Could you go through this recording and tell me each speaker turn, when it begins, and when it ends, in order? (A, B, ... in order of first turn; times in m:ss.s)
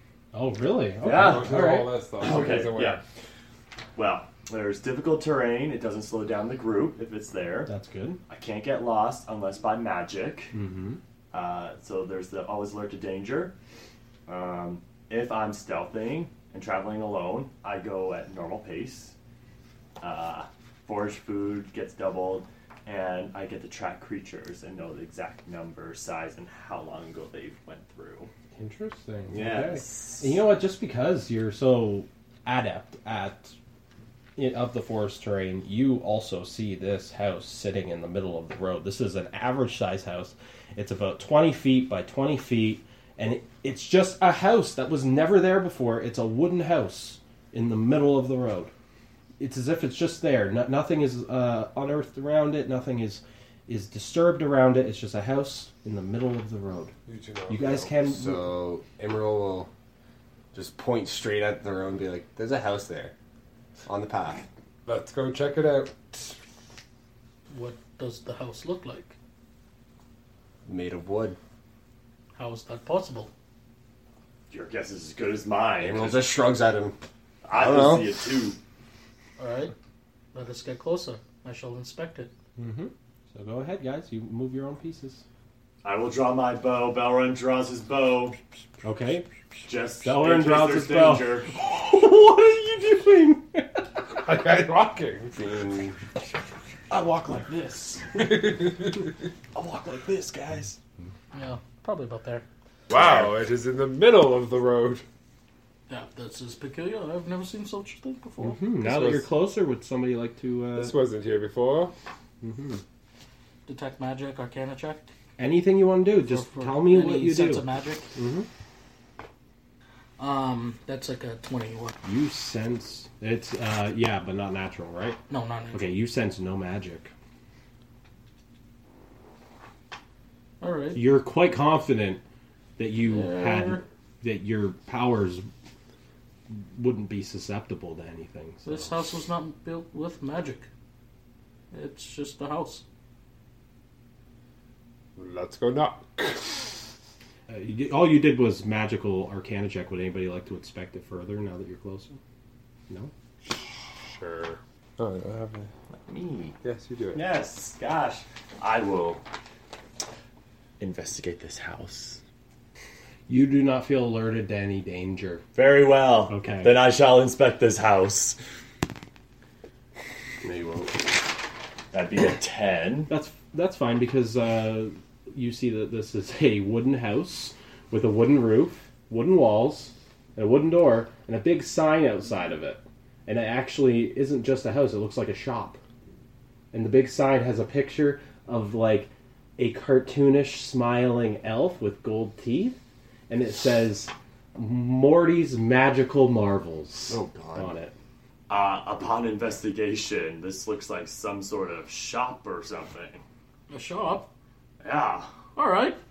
0:00.3-0:01.9 A
0:01.0-0:01.6 B
0:01.1-0:03.0 C
0:02.2-0:03.0 B
0:04.0-0:07.7 B
0:07.6-0:08.2 A
0:08.3-0:10.5 B
0:10.5-0:11.0 A
0:11.3-0:13.5 B
0:14.3-0:19.1 B
0:20.0-0:28.3 B
0:28.6-0:33.5 A
0:29.3-0:30.4 B
0:34.4-0:48.7 A
0:49.4-0:56.9 A
0:57.1-0:57.9 C
0:57.5-0:58.4 A
0:58.1-0:59.7 D
1:00.5-1:03.1 D
1:03.9-1:04.5 D
1:04.9-1:06.4 C
1:07.5-1:09.1 E
1:10.6-1:11.4 D
1:12.4-1:13.3 E
1:14.5-1:16.2 B
1:15.8-1:17.0 D
1:17.4-1:18.6 B
1:17.5-1:18.2 D
1:19.4-1:19.7 E
1:20.3-1:22.3 E
1:22.6-1:25.2 A
1:25.8-1:28.4 B
1:28.8-1:29.3 A
1:29.6-1:31.6 B
1:30.0-1:34.2 A
1:34.2-1:35.4 C
1:35.3-1:36.0 D
1:36.9-1:38.5 A
1:38.1-1:39.0 C
1:39.5-1:40.8 A
1:41.3-1:42.4 E
1:42.9-1:45.0 C
1:45.9-1:48.6 E
1:48.4-1:51.0 A
1:48.8-1:49.3 C
1:50.8-1:51.9 C
1:52.4-1:52.8 A
1:53.6-1:55.1 E
1:55.4-1:58.5 A
1:56.3-1:58.1 E
2:00.2-2:01.9 E
2:02.0-2:05.2 A
2:05.3-2:05.9 E
2:05.7-2:07.1 A
2:10.6-2:11.0 E
2:10.9-2:12.2 A
2:12.8-2:15.4 A
2:13.1-2:13.8 E
2:16.5-2:19.2 A
2:18.6-2:20.7 E
2:21.7-2:22.8 E
2:25.2-2:26.8 C
2:27.5-2:32.2 A
2:33.4-2:35.7 C
2:36.1-2:36.6 B
2:36.6-2:37.3 C
2:37.1-2:39.2 B
2:40.8-2:42.2 B
2:43.3-2:45.4 A
2:45.5-2:48.4 B
2:46.3-2:46.8 A
2:50.4-2:51.1 D
2:51.9-2:53.1 B
2:53.1-3:05.8 A
3:06.7-3:12.8 A
3:13.3-3:17.9 A
3:17.1-3:17.7 D
3:18.5-3:23.2 B
3:23.7-3:24.3 E
3:24.8-3:25.3 B
3:25.6-3:26.0 E